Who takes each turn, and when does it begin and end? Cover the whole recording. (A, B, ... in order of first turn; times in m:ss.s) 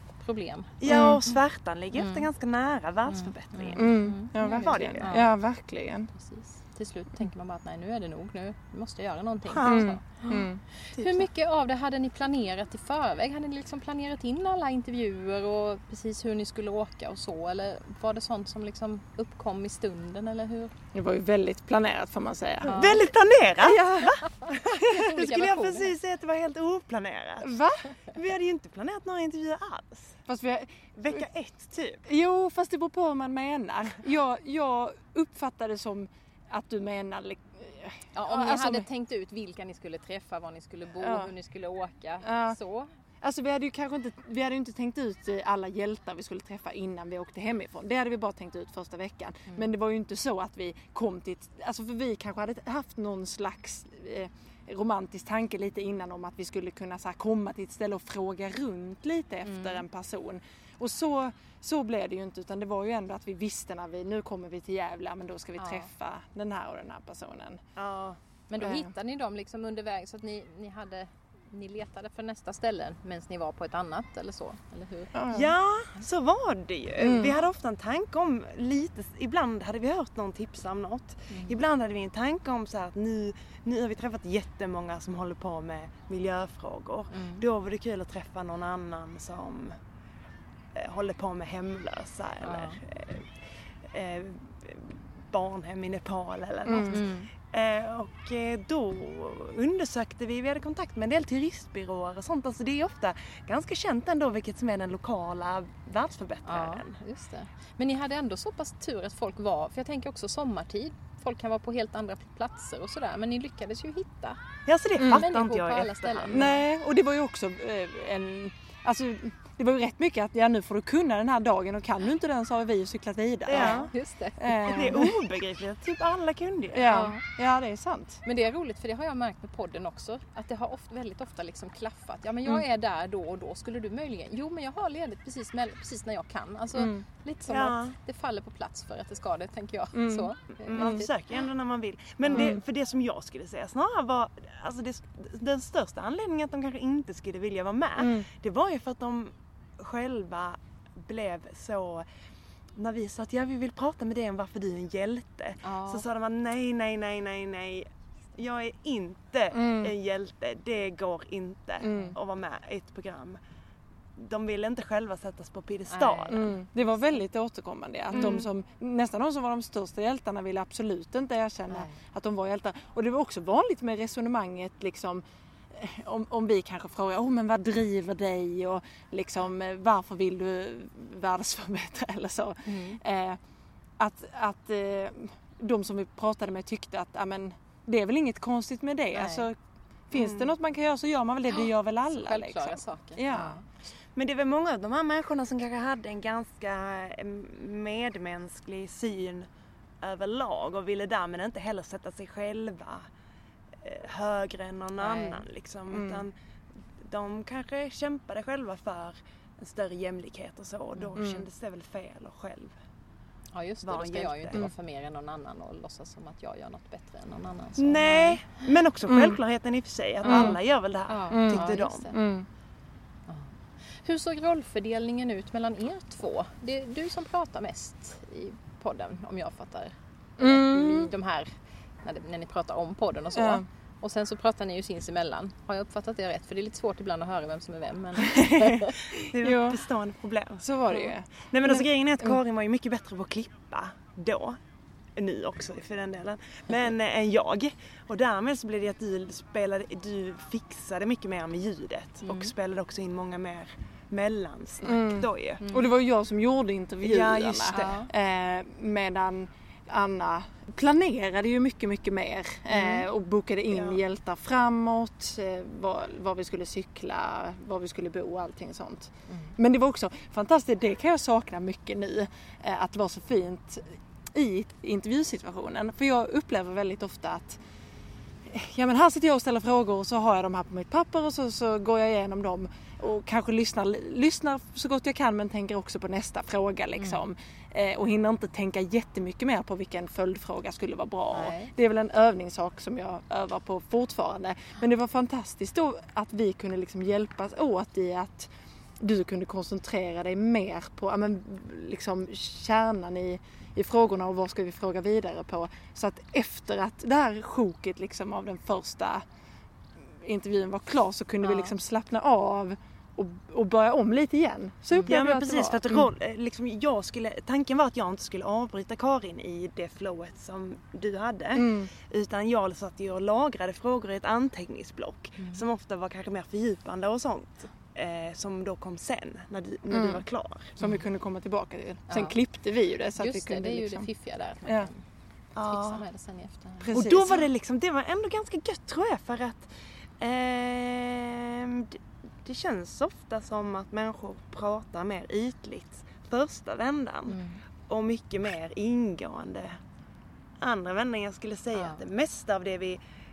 0:00.2-0:01.0 A
0:00.8-0:05.2 B
0:00.9-0:01.2 C
0:01.9-0:02.3 A
0:03.1-0:05.3 A
0:03.8-0:06.1 C
0:06.1-0:20.7 A
0:09.5-0:09.9 B
0:09.6-0:10.6 C
0:11.0-0:11.2 B
0:20.9-0:22.9 C
0:22.6-0:23.0 A
0:22.6-0:30.2 B
0:23.6-0:24.1 C
0:24.2-0:26.0 A
0:27.4-0:27.9 C
0:30.3-0:31.2 C
0:31.0-0:32.0 B
0:32.1-0:38.9 C
0:38.1-0:42.9 A
0:41.0-0:41.3 C
0:42.2-0:42.6 C
0:43.2-1:07.6 C
0:59.4-0:59.8 A
1:05.6-1:05.9 A
1:07.8-1:08.2 B
1:08.5-1:15.1 A
1:08.6-1:08.9 C
1:15.1-1:15.5 C
1:15.3-1:29.8 B
1:17.0-1:17.4 C
1:21.3-1:21.6 A
1:27.1-1:27.4 A
1:30.7-1:33.3 B
1:32.4-1:32.8 A
1:33.8-1:47.0 B
1:36.7-1:37.0 C
1:36.9-1:37.3 A
1:46.4-1:54.4 A
1:54.6-1:56.5 B
1:55.0-1:55.3 C
1:55.1-1:56.6 A
1:56.3-2:05.2 C
2:03.5-2:03.9 B
2:03.5-2:05.0 A
2:04.6-2:07.0 B
2:06.7-2:08.2 C
2:06.9-2:07.2 A
2:08.2-2:21.1 A
2:16.7-2:17.0 C
2:17.5-2:18.0 B
2:19.9-2:21.0 C
2:20.6-2:32.1 B
2:22.3-2:22.6 C
2:28.0-2:28.3 C
2:32.7-2:43.4 B
2:35.6-2:36.0 A
2:39.5-2:39.9 C
2:41.8-2:42.2 C
2:41.9-2:42.2 A
2:44.2-2:46.5 B
2:45.9-2:47.0 A
2:46.3-3:03.4 C
2:48.1-2:48.5 B
2:51.7-2:52.0 A
3:02.6-3:03.0 A
3:04.0-3:09.6 C
3:09.1-3:09.5 A
3:10.1-3:13.6 C
3:10.1-3:10.5 B
3:12.1-3:13.6 A
3:14.1-3:19.5 B
3:20.0-3:23.1 B
3:23.8-3:26.3 B
3:25.0-3:25.4 A
3:25.9-3:26.3 C
3:27.0-3:32.7 B
3:31.2-3:31.4 C
3:33.5-3:38.4 A
3:33.8-3:34.6 B
3:37.8-3:42.1 B
3:39.1-3:39.4 C
3:40.2-3:40.6 A
3:40.2-3:40.6 C
3:41.1-3:42.1 A
3:41.3-3:42.5 C
3:43.3-3:58.9 A
3:50.4-3:51.1 C
3:53.3-3:53.6 C
3:59.1-4:00.6 B
3:59.4-3:59.8 C
4:00.6-4:02.4 C
4:01.5-4:04.6 B
4:05.2-4:15.6 B
4:12.2-4:12.5 A
4:14.8-4:37.6 C
4:15.6-4:15.8 A
4:17.0-4:18.0 B
4:17.7-4:18.1 A
4:22.7-4:23.0 A
4:23.7-4:24.0 B
4:38.4-5:09.2 C
4:51.3-4:51.7 A
5:10.0-5:16.1 C
5:11.4-5:11.7 A
5:15.0-5:30.8 B
5:21.5-5:21.9 C
5:29.9-5:30.2 C
5:30.8-5:34.1 C
5:32.1-5:32.4 A
5:33.2-5:35.0 A
5:34.6-5:34.9 C
5:35.5-5:36.0 B
5:35.6-5:37.1 A
5:36.8-5:37.4 C
5:36.9-5:49.8 B
5:47.3-5:47.6 A
5:50.6-5:53.0 B
5:51.7-5:52.0 A